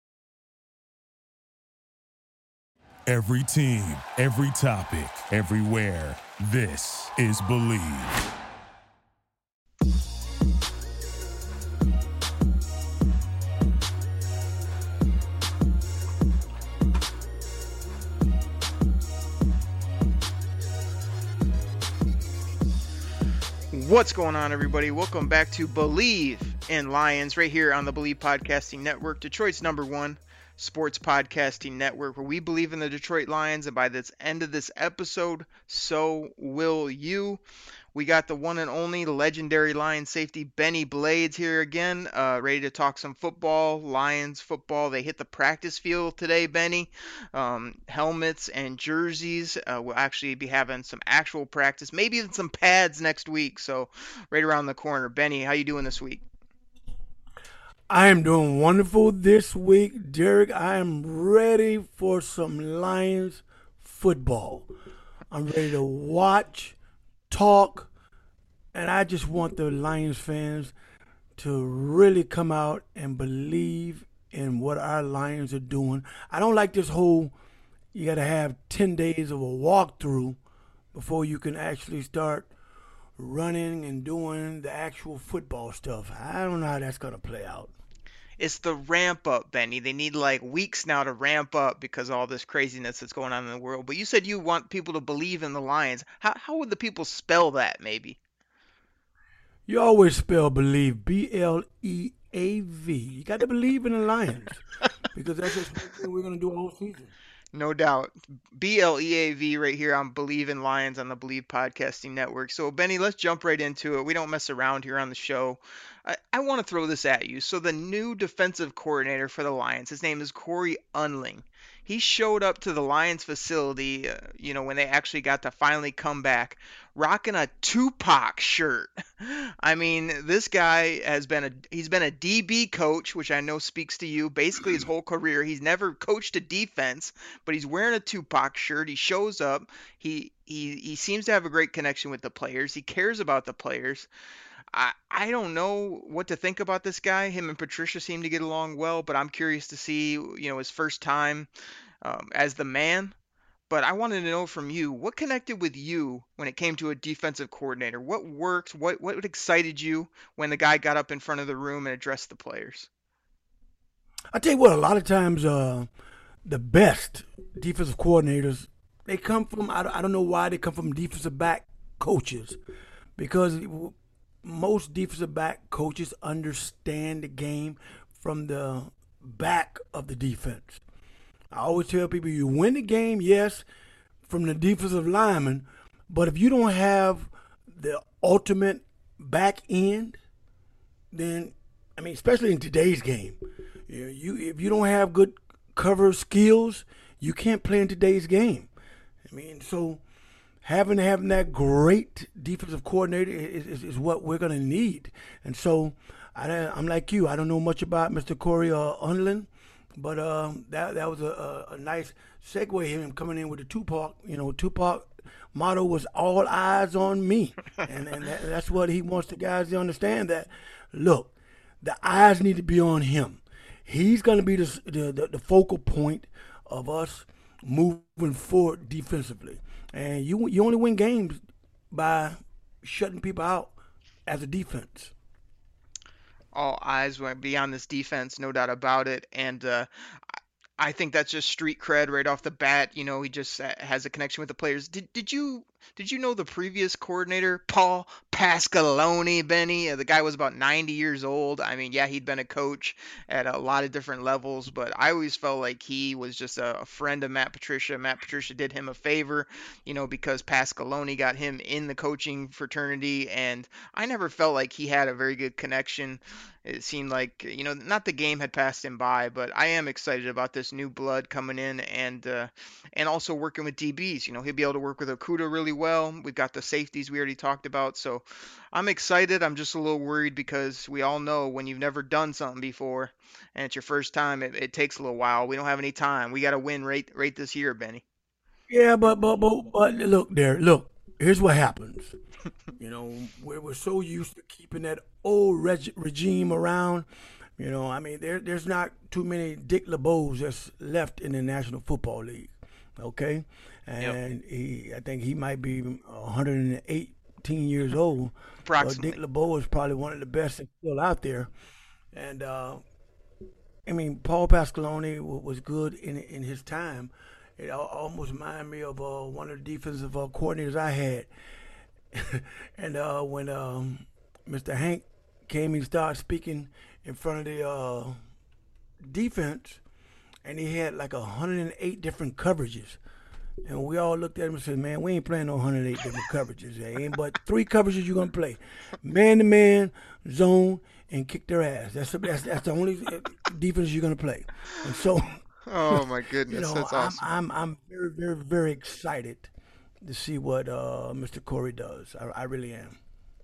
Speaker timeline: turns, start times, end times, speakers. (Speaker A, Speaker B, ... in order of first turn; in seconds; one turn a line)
Speaker A: 3.1-8.2
Speaker B: 23.7-37.4
Speaker B: 37.9-56.2
Speaker C: 57.9-64.7
Speaker C: 65.3-66.8
Speaker C: 67.3-67.9
Speaker C: 68.7-70.7
Speaker C: 71.4-77.3
Speaker C: 77.9-80.4
Speaker C: 80.9-82.5
Speaker C: 83.2-87.7
Speaker B: 88.4-98.2
Speaker C: 99.7-104.6
Speaker C: 105.2-107.1
Speaker B: 107.5-144.1
Speaker B: 144.7-151.5
Speaker B: 152.0-153.1
Speaker B: 153.7-162.9
Speaker C: 164.3-165.9
Speaker C: 166.4-172.6
Speaker C: 173.2-180.8
Speaker C: 181.5-183.6
Speaker C: 184.3-190.2
Speaker C: 191.1-198.7
Speaker C: 199.2-200.0
Speaker C: 200.6-233.7
Speaker C: 234.3-235.1
Speaker B: 236.5-239.9
Speaker B: 240.8-288.0
Speaker C: 288.7-292.2
Speaker C: 292.8-297.1
Speaker C: 297.6-311.5
Speaker B: 308.6-309.2
Speaker C: 312.1-312.8
Speaker C: 313.9-321.3
Speaker C: 322.1-328.2
Speaker C: 329.0-329.8
Speaker C: 330.4-333.0
Speaker C: 333.6-349.5
Speaker B: 345.7-347.3
Speaker C: 350.0-353.0